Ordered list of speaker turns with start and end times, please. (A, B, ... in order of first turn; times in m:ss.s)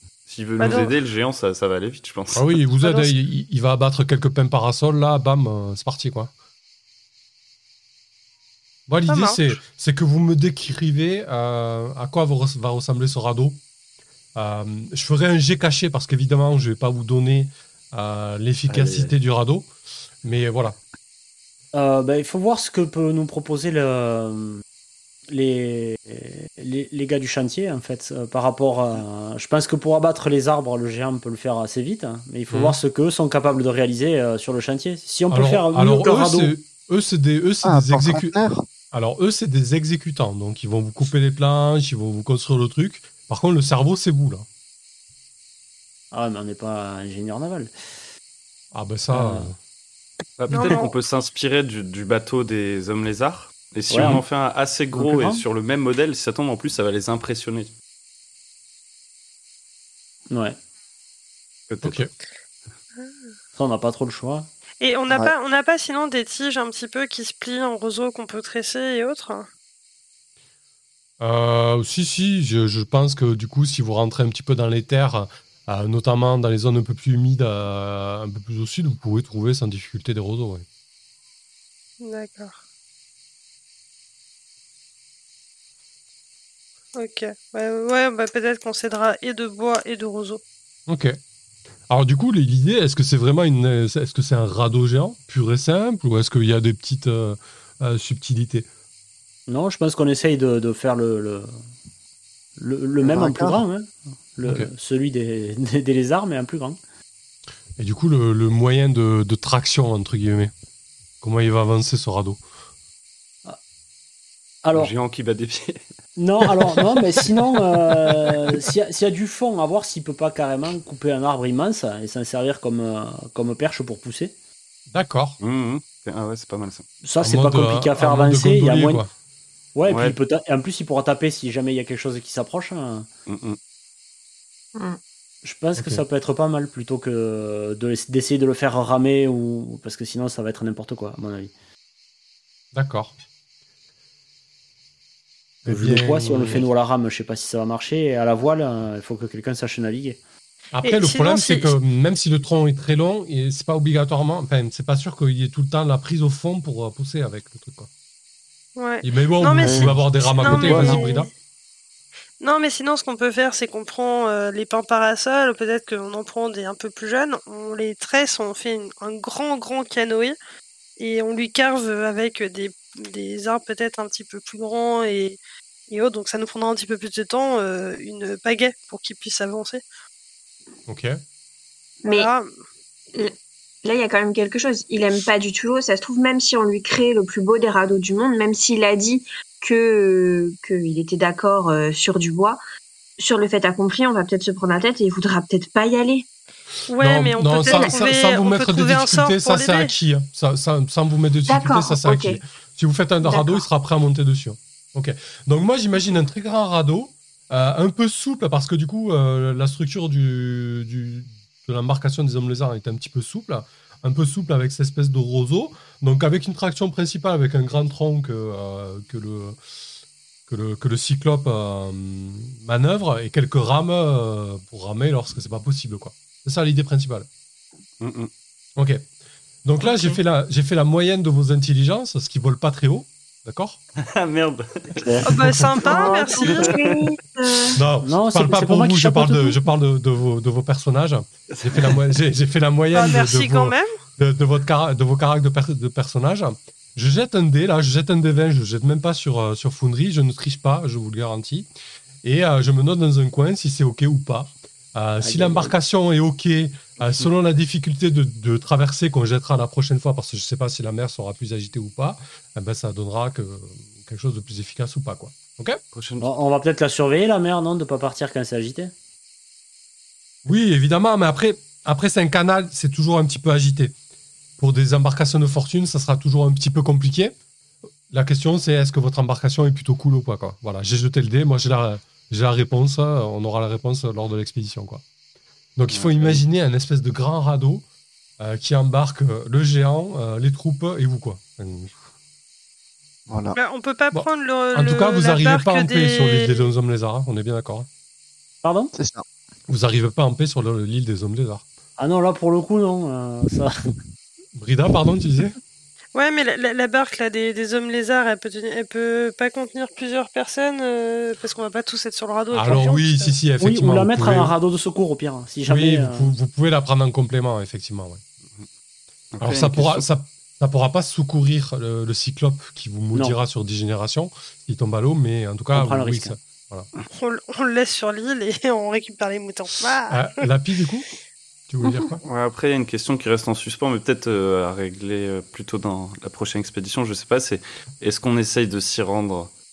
0:00.3-0:02.6 A
0:00.6-0:00.9 B
0:02.3-0:06.3 C
0:02.8-0:03.1 B
0:08.9-0:13.6 C
0:09.1-0:09.5 B
0:14.4-0:19.7 C
0:18.7-0:19.1 A
0:20.2-0:20.8 C
0:21.7-0:24.6 D
0:25.3-0:36.5 D
0:32.5-0:32.8 C
0:35.3-0:38.3 C
0:37.6-0:38.6 E
0:38.9-0:44.4 C
0:46.1-0:47.7 D
0:48.7-0:49.5 C
0:49.1-0:49.5 D
0:50.4-0:57.7 A
0:50.5-0:50.9 B
0:53.9-0:54.2 D
0:54.9-0:55.4 D
1:00.3-1:00.6 D
1:01.7-1:02.1 A
1:01.8-1:02.1 C
1:03.6-1:04.5 D
1:04.8-1:09.5 B
1:11.2-1:20.6 C
1:22.0-1:22.6 B
1:27.0-1:30.4 B
1:30.9-1:31.2 C
1:31.9-1:38.7 C
1:39.5-1:41.5 D
1:42.6-1:46.8 D
1:43.0-1:43.6 E
1:44.4-1:44.7 C
1:47.8-1:50.5 C
1:51.2-1:52.4 C
1:54.6-1:54.9 D
1:54.7-1:55.8 A
1:56.2-2:04.3 D
1:56.4-1:58.6 A
2:04.9-2:05.4 C
2:05.4-2:06.9 A
2:07.0-2:09.0 D
2:07.2-2:09.1 C
2:09.7-2:13.1 D
2:09.9-2:10.2 A
2:13.3-2:13.6 A
2:15.4-2:21.5 D
2:15.8-2:16.0 C
2:22.7-2:23.1 C
2:25.6-2:26.6 C
2:25.6-2:30.2 D
2:30.7-2:37.9 C
2:30.8-2:31.7 B
2:38.8-2:41.2 B
2:39.0-2:41.3 C
2:39.6-2:40.0 E
2:40.6-2:41.2 E
2:42.4-2:50.4 B
2:51.0-2:59.8 B
3:00.9-3:01.2 C
3:02.0-3:02.3 F
3:02.1-3:02.5 B
3:03.1-3:12.6 F
3:13.2-3:16.2 F
3:16.9-3:19.9 B
3:17.0-3:39.6 C
3:17.6-3:17.9 F
3:21.5-3:22.4 F
3:23.2-3:23.6 F
3:40.5-3:47.3 C
3:48.0-3:48.3 A
3:48.8-3:49.0 C
3:49.6-3:53.8 C
3:49.8-3:50.2 F
3:54.0-3:55.3 A
3:55.0-3:55.3 D
3:55.2-3:56.8 B
3:55.8-3:57.8 F
3:56.5-3:57.0 A
3:57.7-4:11.7 C
3:58.0-3:59.6 D
4:01.5-4:02.0 A
4:02.9-4:03.9 B
4:12.2-4:25.8 C
4:15.2-4:15.7 D
4:17.0-4:17.3 A
4:25.9-4:26.3 A
4:26.2-4:28.9 D
4:30.4-4:33.9 C
4:34.6-4:37.3 C
4:38.1-4:45.0 C
4:45.8-4:47.8 C
4:45.9-4:46.4 A
4:48.4-4:51.9 C
4:53.3-4:53.6 E
4:53.5-4:56.7 B
4:54.1-4:57.9 C
4:58.6-4:58.9 D
4:58.9-4:59.2 E
4:59.7-5:01.6 C
5:02.0-5:03.9 D
5:04.6-5:05.6 C
5:06.1-5:13.4 B
5:12.5-5:14.5 C
5:13.6-5:16.3 D
5:15.6-5:18.2 C
5:19.3-5:20.0 A
5:19.4-5:26.9 C
5:25.7-5:26.3 D
5:27.1-5:30.4 B
5:30.1-5:31.0 C
5:31.7-5:32.2 C
5:32.2-5:39.5 A